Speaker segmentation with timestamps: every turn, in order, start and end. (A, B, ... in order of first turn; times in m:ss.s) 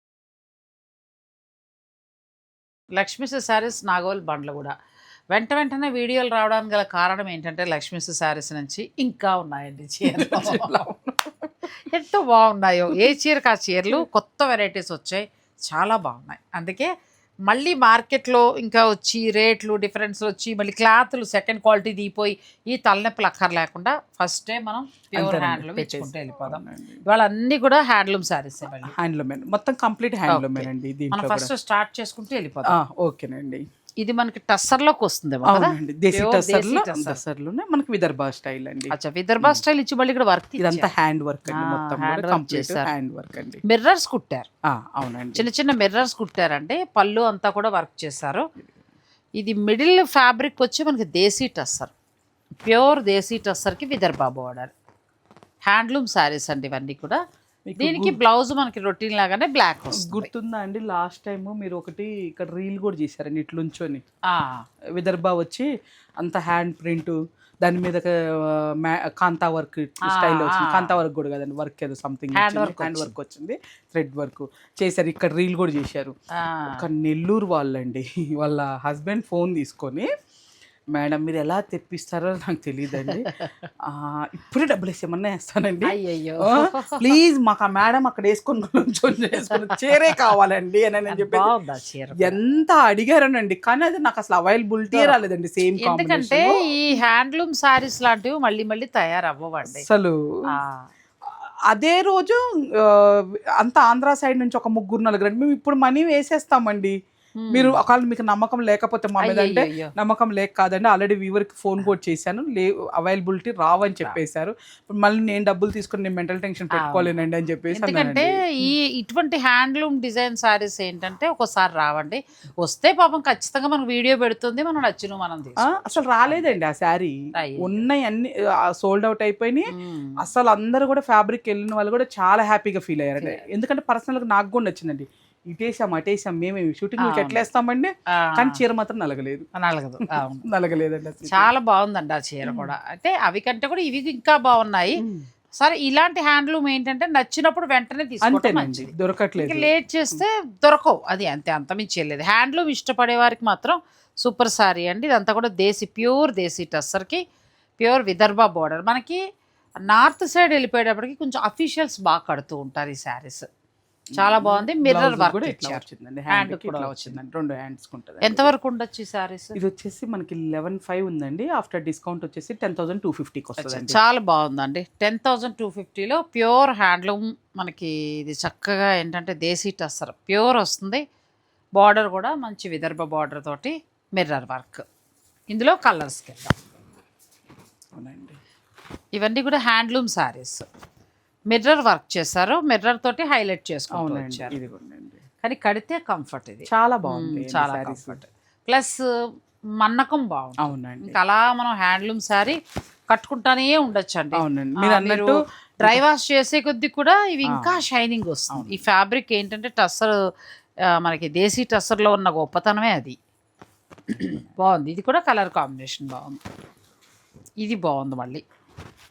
0:03.0-0:04.7 A
0:05.3-0:10.7 A
0:10.0-0:11.7 B
0:11.8-0:16.9 A
0:17.5-0:28.9 A
0:25.1-0:27.0 B
0:28.7-0:31.5 B
0:30.3-0:32.7 A
0:32.7-0:33.6 B
0:34.0-0:37.2 A
0:35.4-0:39.6 B
0:38.9-0:40.9 A
0:40.6-0:43.6 B
0:41.5-0:42.9 A
0:43.6-0:44.5 A
0:44.7-0:45.5 B
0:45.3-0:48.4 A
0:49.4-0:51.9 A
0:52.6-0:54.7 A
0:55.6-0:57.2 A
0:57.7-0:58.2 B
0:57.8-1:00.3 A
0:59.9-1:04.0 B
1:04.3-1:04.6 A
1:05.0-1:16.1 B
1:10.0-1:11.0 A
1:12.3-1:13.1 A
1:16.4-1:16.8 A
1:16.8-1:20.1 B
1:20.9-1:31.5 B
1:22.9-1:23.7 A
1:25.9-1:27.1 A
1:29.5-1:30.2 A
1:31.1-1:32.4 A
1:32.2-1:36.6 B
1:34.9-1:35.2 A
1:35.8-1:39.9 A
1:39.6-1:40.2 B
1:40.5-1:40.8 A
1:41.2-1:46.9 B
1:47.4-1:47.8 A
1:47.5-1:58.7 B
1:49.2-1:49.9 A
1:56.7-1:57.1 A
1:57.7-2:06.4 A
2:05.6-2:19.4 B
2:07.3-2:07.8 A
2:09.7-2:10.2 A
2:17.0-2:17.4 A
2:18.1-2:18.6 A
2:19.5-2:20.4 A
2:20.4-2:21.5 B
2:21.3-2:25.0 A
2:22.4-2:22.7 B
2:25.0-2:25.3 B
2:25.6-2:37.2 A
2:28.2-2:30.2 B
2:37.8-2:39.2 A
2:39.8-2:43.5 A
2:44.1-2:48.5 B
2:44.1-2:47.2 A
2:48.2-2:49.6 A
2:49.5-2:54.0 B
2:53.6-3:01.0 A
3:01.8-3:04.8 A
3:05.5-3:06.6 A
3:07.9-3:08.4 B
3:09.1-3:10.6 A
3:11.5-3:14.6 A
3:13.9-3:15.2 B
3:15.4-3:19.1 A
3:16.7-3:18.2 B
3:19.8-3:22.6 A
3:20.6-3:21.2 B
3:23.1-3:30.2 A
3:24.4-3:26.0 B
3:27.5-3:27.8 B
3:28.5-3:28.8 B
3:30.9-3:33.2 A
3:34.1-3:36.4 A
3:34.2-3:34.5 B
3:37.6-3:38.4 A